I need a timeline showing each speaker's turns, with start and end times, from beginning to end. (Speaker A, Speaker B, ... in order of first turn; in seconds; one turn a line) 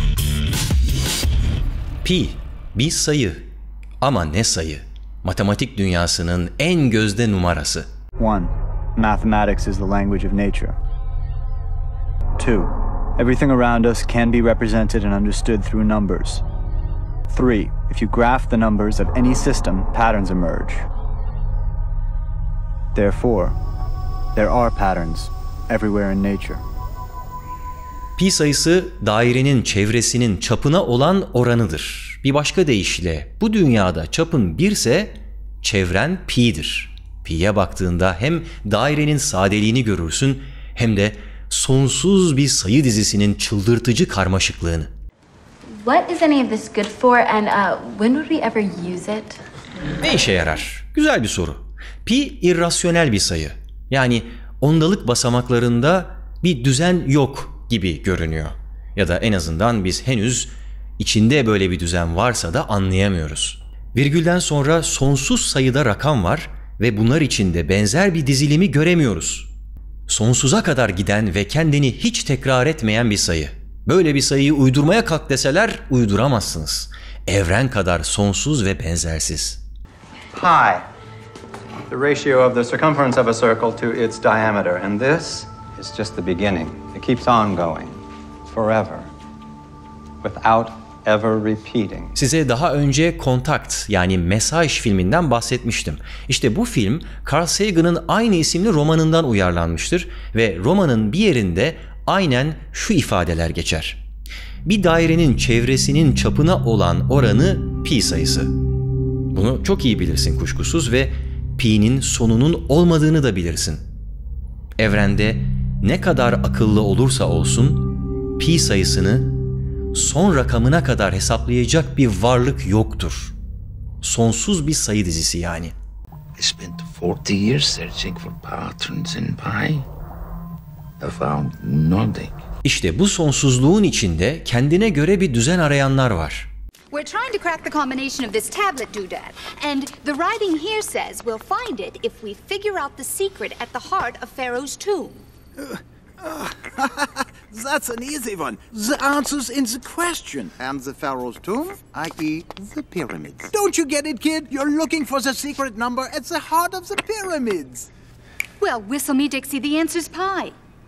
Speaker A: 2.0-3.5
Speaker A: 4.0-7.9
Speaker B: 8.2-10.8
Speaker B: 12.4-16.4
Speaker B: 17.3-20.9
Speaker B: 22.9-23.6
Speaker B: 24.4-26.6
Speaker A: 28.2-44.9
Speaker C: 45.8-49.4
Speaker A: 50.0-69.5
Speaker A: 70.1-79.6
Speaker D: 80.3-80.8
Speaker D: 81.9-89.1
Speaker D: 90.2-92.1
Speaker A: 92.1-104.0
Speaker A: 104.7-108.5
Speaker A: 109.3-113.8
Speaker A: 114.8-119.4
Speaker A: 119.9-123.3
Speaker A: 124.0-125.7
Speaker E: 126.4-129.8
Speaker E: 131.0-132.3
Speaker A: 132.6-136.5
Speaker F: 136.9-145.2
Speaker G: 146.3-157.9
Speaker F: 158.6-160.6